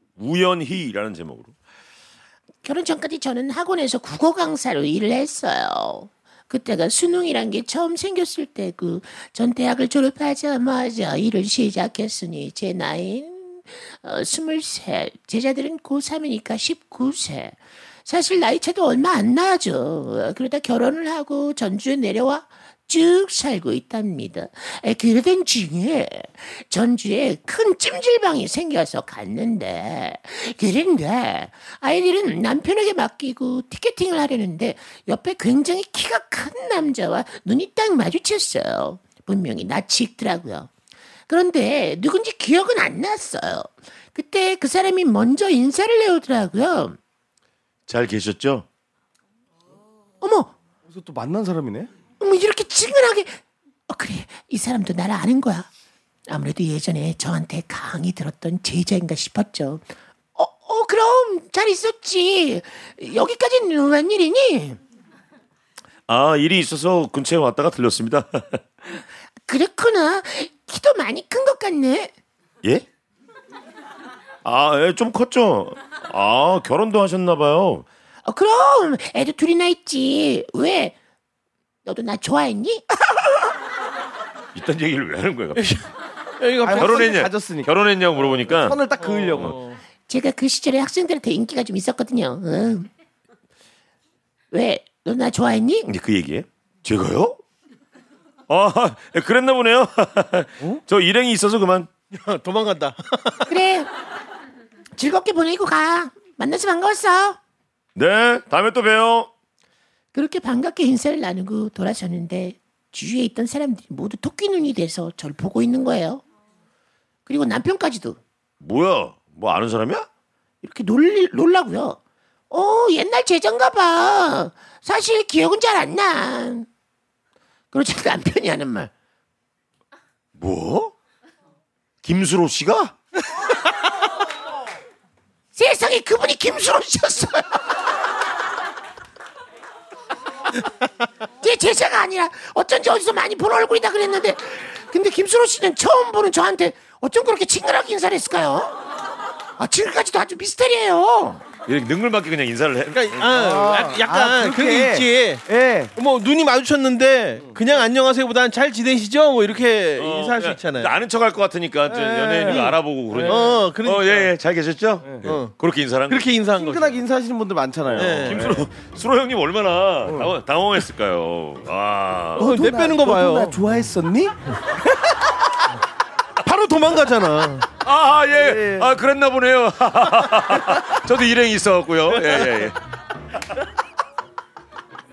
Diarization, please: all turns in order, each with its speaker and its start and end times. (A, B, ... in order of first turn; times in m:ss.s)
0:00.2-0:01.6 A
0:02.6-0:40.7 B
0:41.3-0:47.0 B
0:47.9-0:48.7 A
0:50.2-0:50.5 B
0:50.9-0:51.9 C
0:52.2-0:55.7 B
0:56.3-1:04.8 B
1:06.1-1:08.6 A
1:09.5-1:12.1 B
1:14.4-1:17.9 A
1:18.2-1:21.0 B
1:21.8-1:22.9 B
1:24.5-1:25.8 A
1:26.4-1:27.2 D
1:26.6-1:27.7 C
1:26.7-1:28.8 A
1:28.3-1:29.6 C
1:29.0-1:29.8 D
1:30.1-1:32.9 B
1:34.5-1:35.9 B
1:35.9-1:37.4 A
1:38.5-1:41.9 A
1:42.1-1:43.5 D
1:43.5-1:43.9 B
1:45.0-1:47.4 B
1:48.0-1:49.3 A
1:50.1-1:56.2 B
1:57.3-1:58.2 B
1:58.6-2:00.1 A
2:00.6-2:02.0 B
2:02.5-2:06.7 B
2:07.7-2:08.9 B
2:10.4-2:10.9 A
2:12.0-2:12.9 A
2:15.6-2:17.7 B
2:21.4-2:28.8 B
2:29.6-2:31.4 B
2:31.7-2:33.2 A
2:32.9-2:35.4 D
2:33.3-2:35.9 C
2:36.0-2:40.9 D
2:40.0-2:46.3 A
2:41.9-2:43.4 C
2:42.4-2:44.3 D
2:45.2-2:45.5 D
2:46.1-2:47.0 D
2:46.6-2:48.6 C
2:48.0-2:48.5 D
2:48.0-2:52.6 A
2:50.0-2:50.3 C
2:52.4-2:53.6 D
2:52.4-2:54.3 C
2:56.4-2:57.7 C
2:57.8-3:02.8 A
2:58.4-2:58.9 C